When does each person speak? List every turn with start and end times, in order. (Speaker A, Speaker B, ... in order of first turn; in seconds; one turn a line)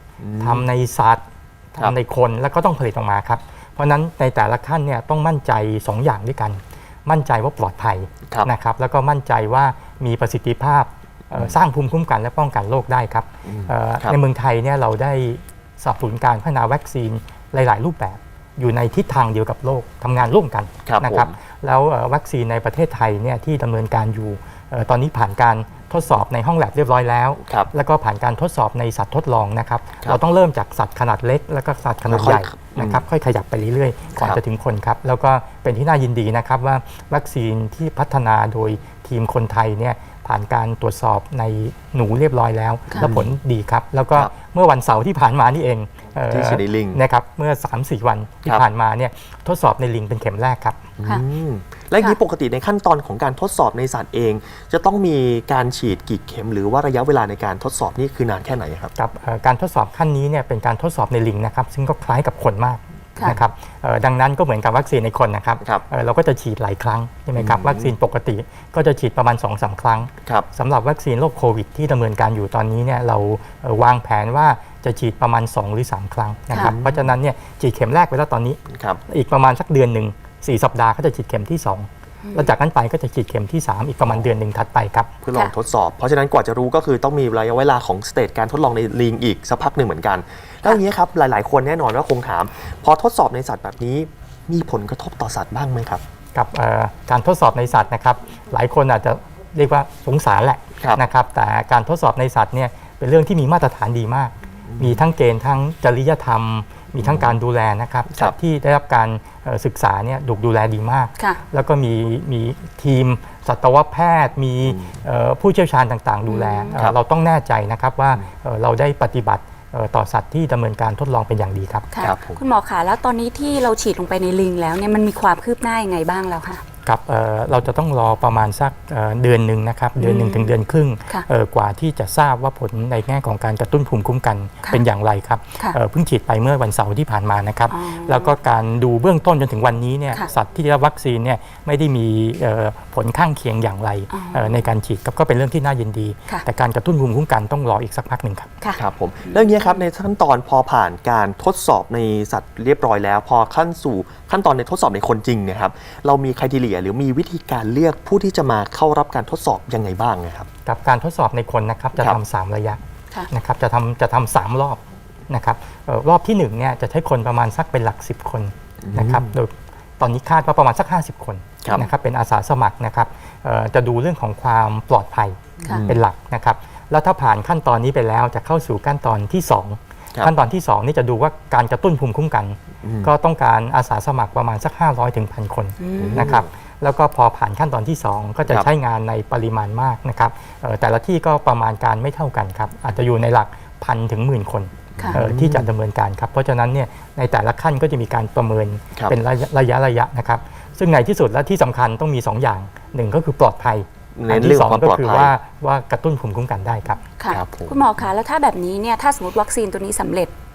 Speaker A: 0.2-0.7
Speaker B: 0.4-1.2
Speaker B: 1.7-50.9
Speaker A: 13.4-14.2
Speaker A: 20.9-21.3
Speaker A: 27.4-27.7
Speaker A: 32.1-33.0
Speaker A: 43.0-43.3
Speaker A: 46.3-47.0
Speaker A: 51.0-58.9
Speaker B: 59.0-85.1
Speaker A: 67.4-67.9
Speaker A: 76.6-77.1
Speaker A: 78.7-79.0
Speaker C: 82.2-82.5
Speaker A: 85.2-96.0
Speaker B: 96.3-121.9
Speaker A: 104.7-105.0
Speaker A: 107.0-107.3
Speaker A: 114.7-115.0
Speaker C: 116.3-116.8
Speaker C: 121.9-126.6
Speaker A: 122.0-122.4
Speaker B: 126.8-148.5
Speaker C: 130.0-130.5
Speaker C: 137.7-138.4
Speaker C: 144.1-144.6
Speaker C: 148.6-149.8
Speaker A: 148.7-160.5
Speaker B: 160.7-162.8
Speaker B: 163.3-207.0
Speaker A: 168.8-169.3
Speaker A: 171.6-171.9
Speaker A: 175.6-176.0
Speaker A: 182.8-183.1
Speaker C: 185.8-186.3
Speaker A: 186.0-186.5
Speaker A: 194.9-195.7
Speaker A: 204.1-205.3
Speaker C: 207.2-210.3
Speaker A: 207.3-207.9